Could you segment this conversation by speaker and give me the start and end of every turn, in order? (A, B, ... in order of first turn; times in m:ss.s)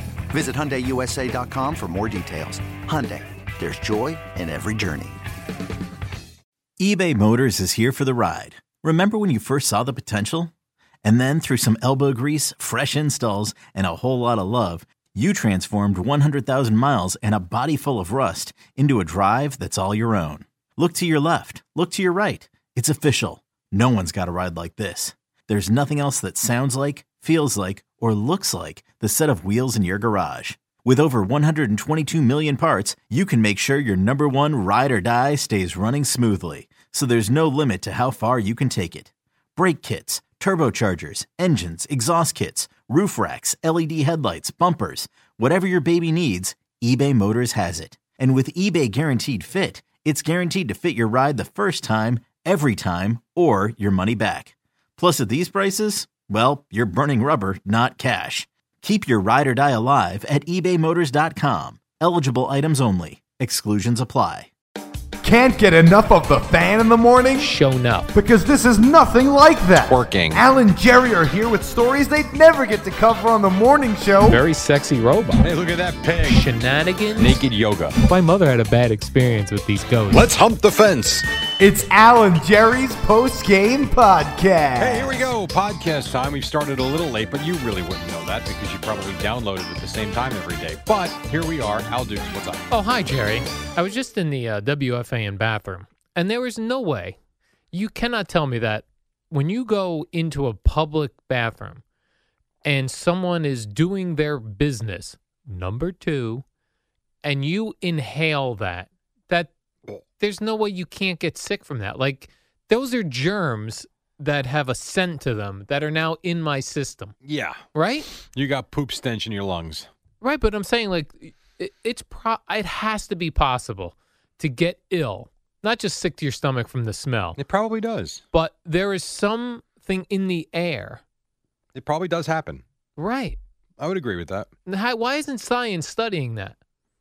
0:00.3-0:05.2 A
0:06.8-0:10.5 B
0:11.0-1:04.5 B
1:05.2-1:07.5 C
1:07.4-1:08.1 D
1:08.1-1:14.4 C
1:09.8-1:10.4 E
1:14.2-1:15.5 D
1:15.4-1:16.5 E
1:16.3-1:17.4 D
1:17.2-1:18.0 E
1:18.0-1:20.3 D
1:20.1-1:21.3 E
1:21.6-1:25.3 C
1:24.8-1:32.7 E
1:32.7-1:37.2 D
1:37.7-1:41.8 D
1:42.6-1:46.4 D
1:47.2-1:49.5 D
1:50.2-1:57.2 D
1:57.2-1:59.9 E
1:57.7-1:58.1 D
2:00.2-2:07.4 D
2:07.4-2:08.2 E
2:08.3-2:11.0 D
2:11.8-2:12.6 E
2:13.0-2:13.4 D
2:13.8-2:14.5 E
2:14.7-2:16.6 D